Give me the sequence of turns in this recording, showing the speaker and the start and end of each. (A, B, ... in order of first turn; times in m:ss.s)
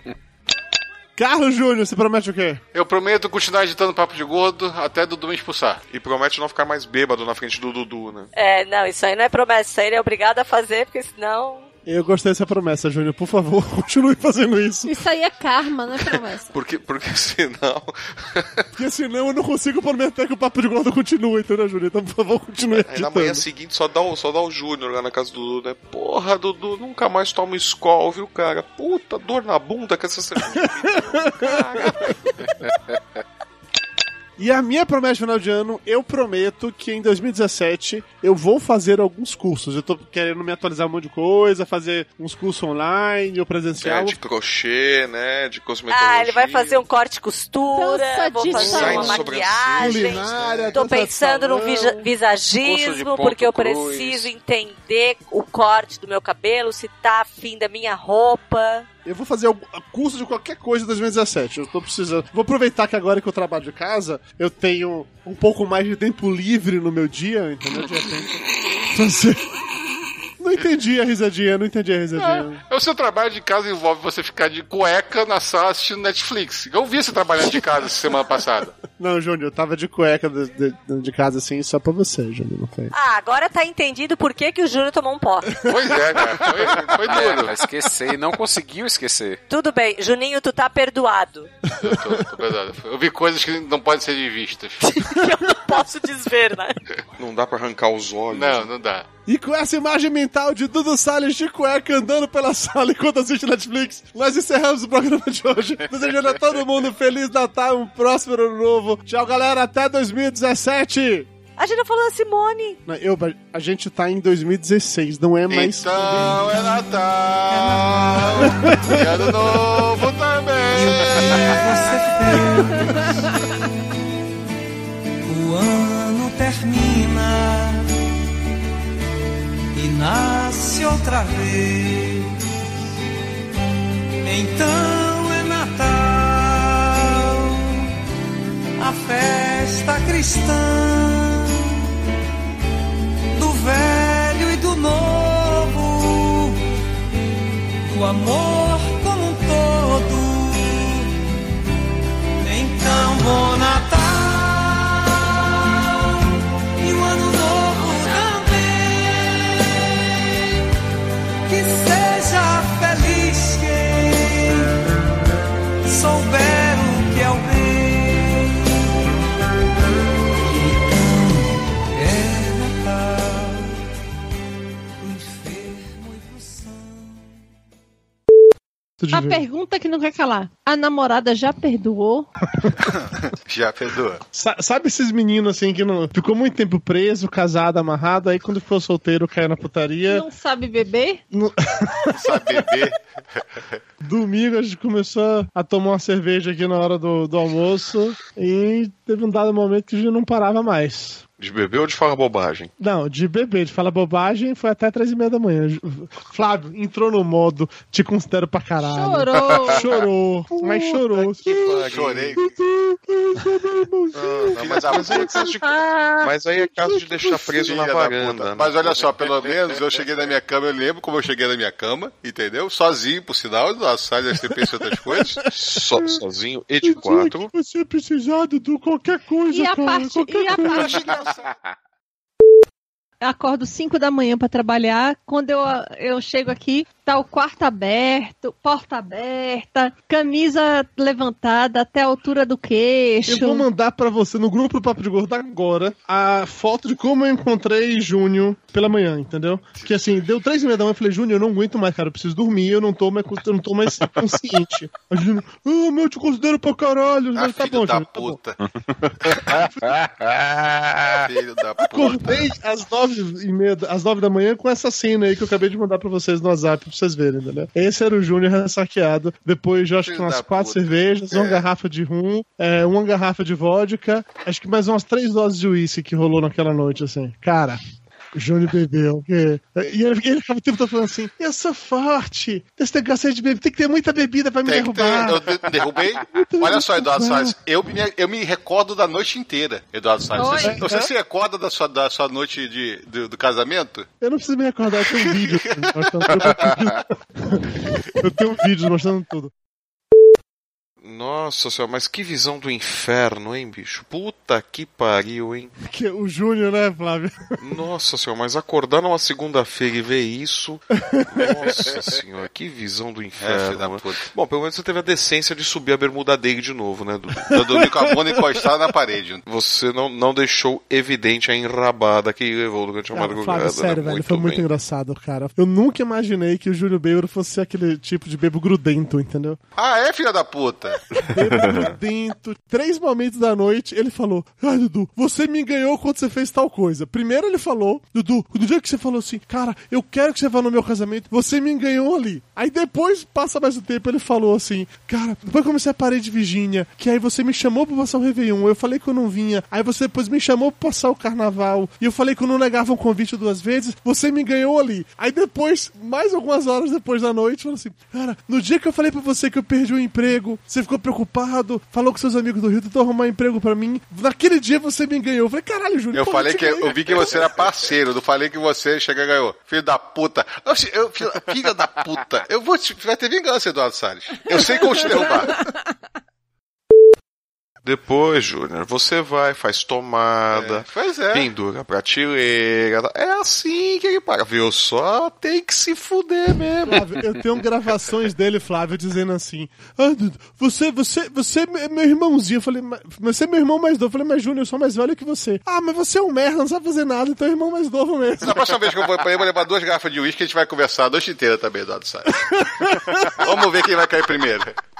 0:01.2-0:02.6 A
0:02.7-0:05.8 B
0:05.9-0:08.3 C
0:08.3-0:11.7 D
0:11.8-0:14.9 A
0:14.8-0:16.5 E
0:16.5-0:18.6 C
0:18.8-0:23.4 A
0:22.7-0:32.2 C
0:30.5-0:32.2 A
0:32.6-0:33.0 F
0:34.4-0:44.2 A
0:43.8-0:46.8 C
0:45.9-0:58.9 D
0:47.7-0:49.3 E
0:48.5-0:50.7 C
0:49.8-0:52.1 A
0:52.6-0:54.3 F
0:59.0-1:09.5 A
1:10.4-1:12.6 A
1:12.2-1:18.7 B
1:19.0-1:22.9 A
1:22.9-1:25.6 D
1:25.6-1:26.7 A
1:25.6-1:27.5 B
1:27.0-1:29.4 F
1:29.5-1:31.5 D
1:31.8-1:34.8 B
1:31.8-1:32.2 A
1:34.9-1:36.8 D
1:37.2-1:38.7 C
1:38.3-1:39.0 B
1:39.3-1:51.3 A
1:51.6-1:52.8 D
1:52.8-1:56.1 A
1:55.5-2:01.9 B
1:57.6-1:58.3 G
1:58.4-1:59.0 A
2:00.7-2:03.0 G
2:02.8-2:03.3 E
2:05.2-2:07.9 G
2:09.7-2:12.4 G
2:14.2-2:17.9 G
2:18.8-2:21.8 G
2:23.3-2:26.6 G
2:27.8-2:31.2 G
2:32.4-2:36.2 G
2:36.8-2:40.5 G
2:41.5-2:44.8 G
2:45.8-2:48.8 G
2:50.4-2:53.8 G
2:55.0-2:57.2 G
2:59.0-2:59.4 A
2:59.1-3:02.3 E
3:02.9-3:04.2 B
3:04.3-3:10.2 A
3:10.1-3:11.2 E
3:11.3-3:12.1 A
3:12.1-3:13.0 B
3:14.0-3:21.2 A
3:21.4-3:22.7 C
3:22.8-3:35.1 A
3:28.8-3:29.8 E
3:31.1-3:32.4 C
3:31.7-3:32.5 B
3:34.1-3:39.0 C
3:34.5-3:35.5 B
3:35.2-3:36.3 E
3:36.6-3:37.0 A
3:37.2-3:45.4 B
3:45.4-3:47.5 C
3:45.9-3:46.2 A
3:46.8-3:51.0 A
3:49.5-3:51.2 E
3:50.5-3:51.6 B
3:53.2-4:03.6 E
4:03.2-4:18.4 A
4:09.8-4:10.2 B
4:17.3-4:18.6 B
4:19.2-4:20.0 B
4:21.0-4:22.5 B
4:21.8-4:37.8 A
4:30.0-4:31.6 B
4:38.3-4:47.6 A
4:44.6-4:54.1 B
4:50.3-4:50.8 E
4:50.6-4:51.1 A
4:54.2-4:59.5 A
4:55.0-4:56.9 B
5:01.0-5:05.7 C
5:05.8-5:07.5 A
5:07.6-5:17.5 C
5:11.0-5:11.6 A
5:13.4-5:14.3 B
5:17.5-5:19.4 B
5:19.4-5:24.6 C
5:23.1-5:29.6 A
5:29.8-5:31.9 B
5:31.2-6:07.5 A
6:06.1-6:15.6 B
6:17.8-6:27.0 C
6:20.5-6:21.5 B
6:26.8-6:38.8 A
6:38.4-6:44.7 B
6:42.4-6:43.5 A